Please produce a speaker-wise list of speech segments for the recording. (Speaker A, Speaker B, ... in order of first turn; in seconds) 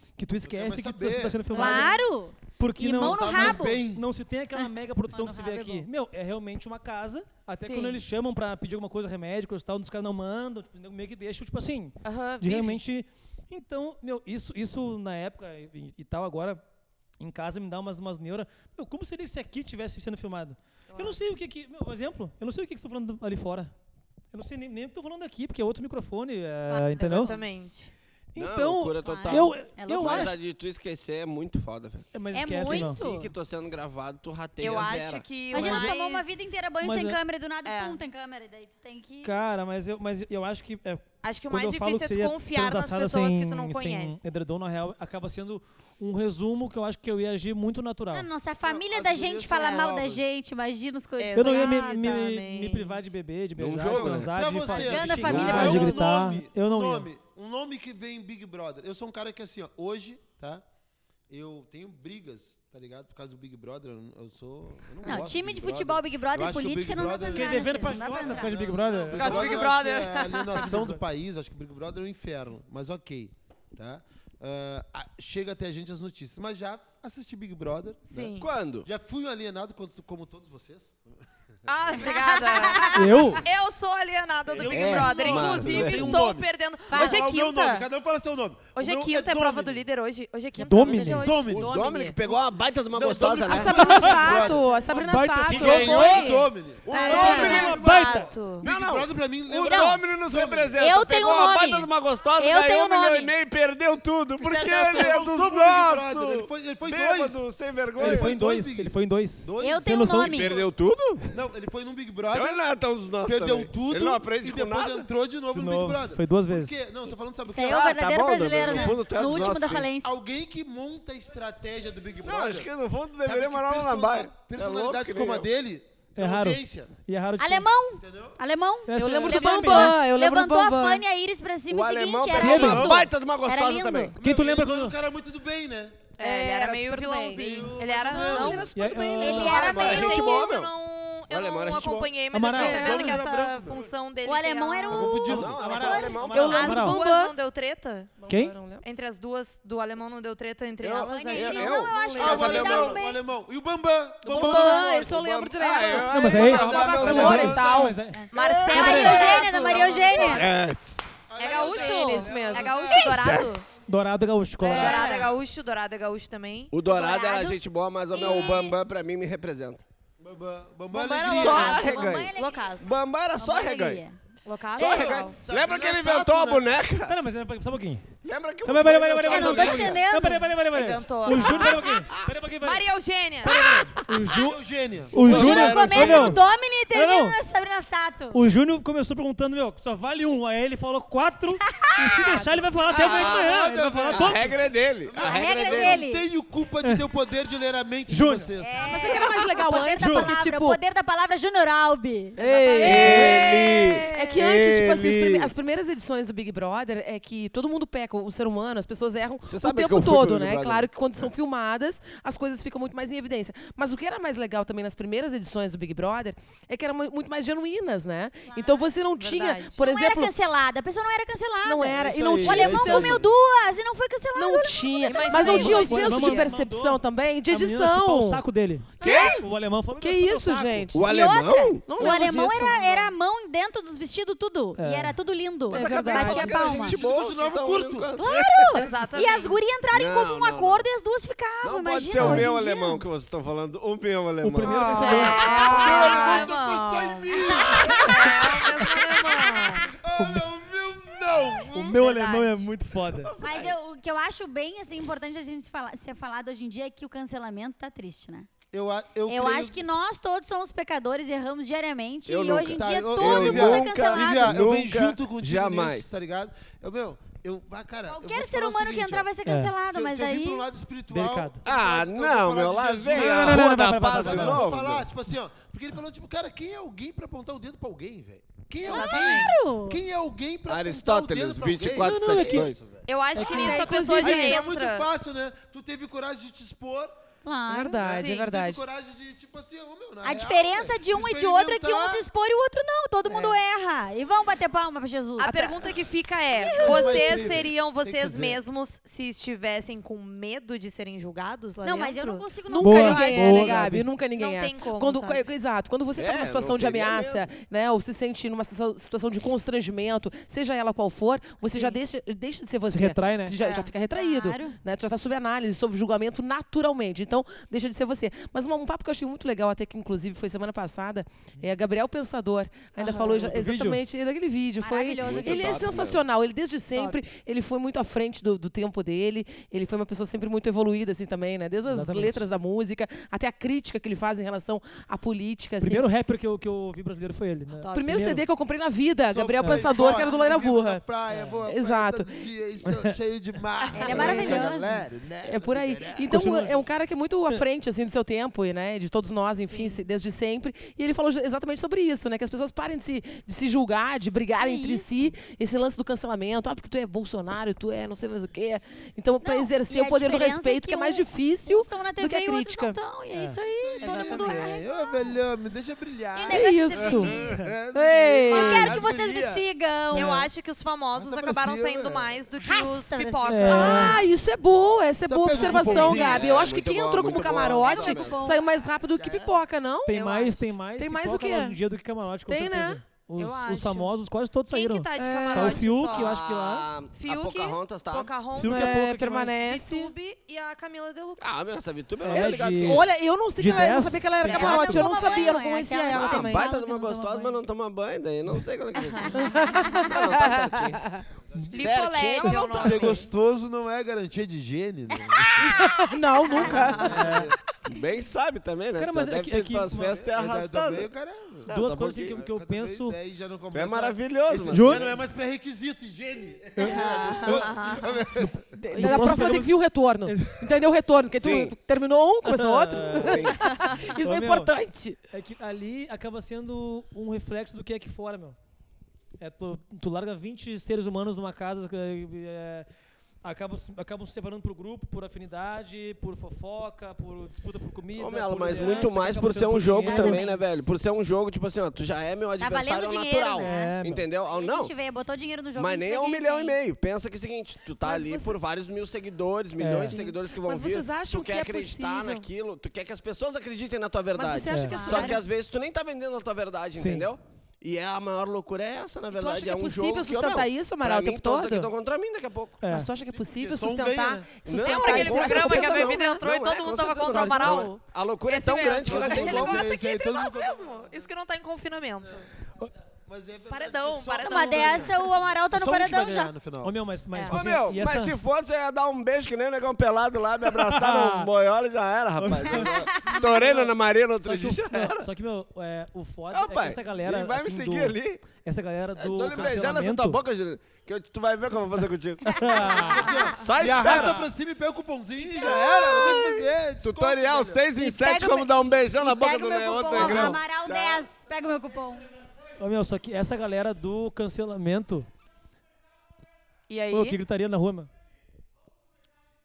Speaker A: 0.2-2.0, 2.6-16.6, 17.2-23.7, 24.3-27.4, 28.4-30.4, 32.1-33.0, 36.8-37.2, 39.2-48.3, 51.3-57.1, 67.3-69.7, 70.6-71.0, 82.9-83.4, 90.6-91.3, 93.8-96.3, 97.0-98.3, 108.0-110.3, 115.5-116.8, 126.2-127.7, 128.9-130.0, 132.3-132.9, 134.2-135.0, 138.7-139.6, 142.3-143.1, 145.6-147.0, 148.3-148.6, 156.1-158.2, 158.7-159.2, 163.9-165.1, 177.0-178.1, 178.6-182.8, 183.5-184.6, 185.1-187.4, 188.3-194.6, 198.1-198.5, 200.0-200.3, 225.4-230.9, 234.8-235.2, 242.2-242.5, 244.4-245.7, 250.2-250.5, 251.7-253.3, 269.5-269.7, 271.1-271.6, 273.1-274.7, 282.0-282.7, 283.4-283.8, 302.8-304.1, 312.9-313.6, 323.1-324.0, 331.9-332.4, 335.8-338.4, 339.6-339.9, 341.3-341.6, 342.9-343.2, 346.3-346.9, 363.3-363.6, 370.1-370.4, 373.5-374.2, 380.1-386.9, 388.6-389.6, 392.2-395.1, 407.0-407.5, 409.0-410.1, 411.7-413.2, 414.7-415.1, 418.4-420.6, 422.4-423.6, 424.1-424.7, 425.3-428.6, 429.4-432.9, 433.4-440.5, 443.6-444.2, 449.8-450.2, 454.7-455.0, 457.0-457.3, 462.8-463.1, 476.8-478.4, 480.7-481.5, 482.4-490.4, 492.5-493.4, 494.0-494.4, 500.2-500.6, 502.8-505.3, 507.1-508.1
Speaker B: 0.4-1.8, 2.9-4.1, 48.6-50.2, 53.9-60.6, 61.3-78.3, 78.8-81.2, 84.5-89.8, 91.0-91.7, 92.9-94.7, 95.5-100.8, 104.9-107.4, 108.0-110.4, 111.3-112.6, 113.2-117.9, 118.6-122.7, 123.2-126.9, 128.0-128.4, 132.4-133.1, 134.2-136.1, 137.3-138.7, 142.5-143.9, 144.9-145.6, 152.2-155.0, 156.2-158.0, 159.6-160.3, 161.3-163.4, 170.2-171.9, 174.8-176.7, 184.2-186.1, 193.0-199.0, 221.9-223.3, 236.5-238.4, 245.6-248.7, 250.0-251.9, 258.7-259.8, 262.6-269.3, 269.9-273.7, 274.2-283.1, 284.2-287.2, 288.0-292.3, 296.6-298.6, 339.3-346.5, 363.7-369.6, 371.1-372.4, 375.2-376.5, 379.2-379.6, 401.5-401.9, 402.7-405.9, 406.9-407.6, 410.1-411.7, 412.3-418.8, 463.3-464.6, 469.0-471.2, 473.3-477.0, 493.1-497.8
Speaker C: 1.5-3.8, 5.1-5.8, 26.7-27.4, 29.0-30.3, 32.3-33.3, 35.5-39.4, 48.1-52.1, 54.6-56.0, 65.0-68.5, 82.0-83.2, 86.9-87.2, 97.2-97.5, 99.6-100.0, 100.8-103.3, 109.6-110.6, 117.5-120.1, 127.4-134.1, 139.2-140.3, 144.2-146.3, 151.0-153.2, 158.2-160.5, 166.8-167.6, 168.1-168.8, 171.2-172.7, 173.4-174.2, 179.2-180.5, 181.3-182.0, 185.2-188.4, 195.2-196.3, 198.6-204.4, 218.5-218.8, 219.8-226.1, 229.0-229.4, 231.0-237.0, 238.2-243.0, 245.2-246.4, 247.5-248.4, 249.1-249.7, 253.4-258.5, 259.3-264.6, 268.1-270.7, 278.9-280.0, 287.4-288.1, 290.2-295.8, 296.6-297.5, 301.8-303.7, 314.1-314.8, 324.8-326.0, 343.9-345.0, 354.6-355.3, 359.4-365.4, 366.4-367.5, 368.5-370.4, 372.6-374.3, 377.8-378.6, 394.5-397.5, 399.2-400.1, 406.5-406.9, 438.7-439.1, 440.0-440.6, 442.6-443.9, 444.5-446.8, 454.9-455.4, 474.4-476.5, 482.8-483.4, 492.5-493.5, 495.6-496.4, 498.0-502.3
Speaker D: 7.6-8.0, 12.0-12.8, 20.9-21.2, 27.0-27.9, 34.6-36.5, 37.6-38.0, 41.2-44.2, 51.2-53.1, 69.1-70.9, 78.1-78.5, 81.7-87.9, 88.8-91.7, 96.9-98.7, 104.5-105.2, 136.2-138.7, 139.3-145.3, 146.4-148.1, 148.8-151.8, 158.3-160.5, 161.4-163.7, 164.7-166.7, 170.9-172.9, 174.4-175.4, 180.7-181.9, 182.6-183.7, 202.5-202.8, 219.1-219.8, 225.1-226.6, 238.7-239.6, 244.9-249.9, 251.7-252.7, 278.8-279.6, 283.1-285.1, 288.0-288.5, 295.4-305.4, 311.7-312.0, 313.6-313.9, 343.9-344.3, 349.6-350.1, 368.5-369.0, 370.1-374.2, 380.1-380.6, 383.4-384.1, 384.7-386.4, 387.1-391.5, 394.4-395.6, 399.0-399.4, 401.7-403.2, 406.6-407.3, 416.8-418.2, 443.0-443.5, 464.8-472.5, 473.7-475.2, 477.3-477.7, 506.9-507.4
Speaker E: 28.4-35.7, 53.6-54.4, 55.1-56.0, 78.4-78.9, 84.6-86.2, 91.5-94.5, 95.6-96.1, 96.9-97.8, 98.6-108.4, 110.2-111.3, 112.3-115.0, 117.7-119.9, 122.2-125.5, 131.7-134.2, 139.5-140.7, 141.3-142.2, 145.2-146.7, 150.8-153.0, 154.4-157.6, 158.3-159.4, 160.0-161.0, 163.0-163.5, 166.7-169.8, 171.2-174.0, 174.8-177.2, 178.2-180.0, 183.4-184.0, 185.2-186.4, 192.9-196.0, 202.8-205.5, 209.4-211.3, 229.0-229.4, 230.9-231.9, 235.7-238.7, 239.9-240.9, 241.6-245.0, 253.1-253.8, 262.3-266.1, 271.6-275.1, 280.7-282.9, 306.1-307.5, 325.2-326.2, 375.7-378.6, 386.0-388.4, 391.4-393.1, 396.1-401.0, 401.7-403.2, 407.9-411.1, 411.7-412.4, 413.7-415.2, 421.4-421.8, 423.2-423.7, 438.2-444.9, 445.8-462.8, 464.6-470.0, 477.5-485.3, 486.5-488.4, 489.2-492.9, 493.5-494.5, 495.6-501.3
Speaker F: 91.5-92.2, 93.4-96.5, 97.0-97.3, 128.9-131.0, 136.2-139.8, 146.3-147.4, 148.2-148.8, 151.9-152.5, 154.2-158.0, 161.5-163.0, 164.6-165.3, 192.3-192.6, 198.8-200.8, 202.4-220.3, 221.6-223.2, 224.3-228.4, 230.0-231.1, 231.9-233.1, 235.7-236.8, 244.6-246.4, 283.3-284.6, 287.7-288.8, 293.3-293.6, 295.5-295.7, 302.7-336.1, 337.9-341.0, 341.7-342.4, 344.0-344.8, 345.4-363.0, 364.1-364.5, 366.5-367.4, 367.9-368.9, 373.7-380.2, 380.9-381.8, 382.5-383.0, 385.1-385.9, 388.6-390.1, 392.3-396.7, 399.3-401.2, 405.6-407.4, 418.8-425.2, 448.0-448.6, 450.1-452.5, 454.4-455.4, 459.3-461.9, 462.8-466.4, 467.3-467.9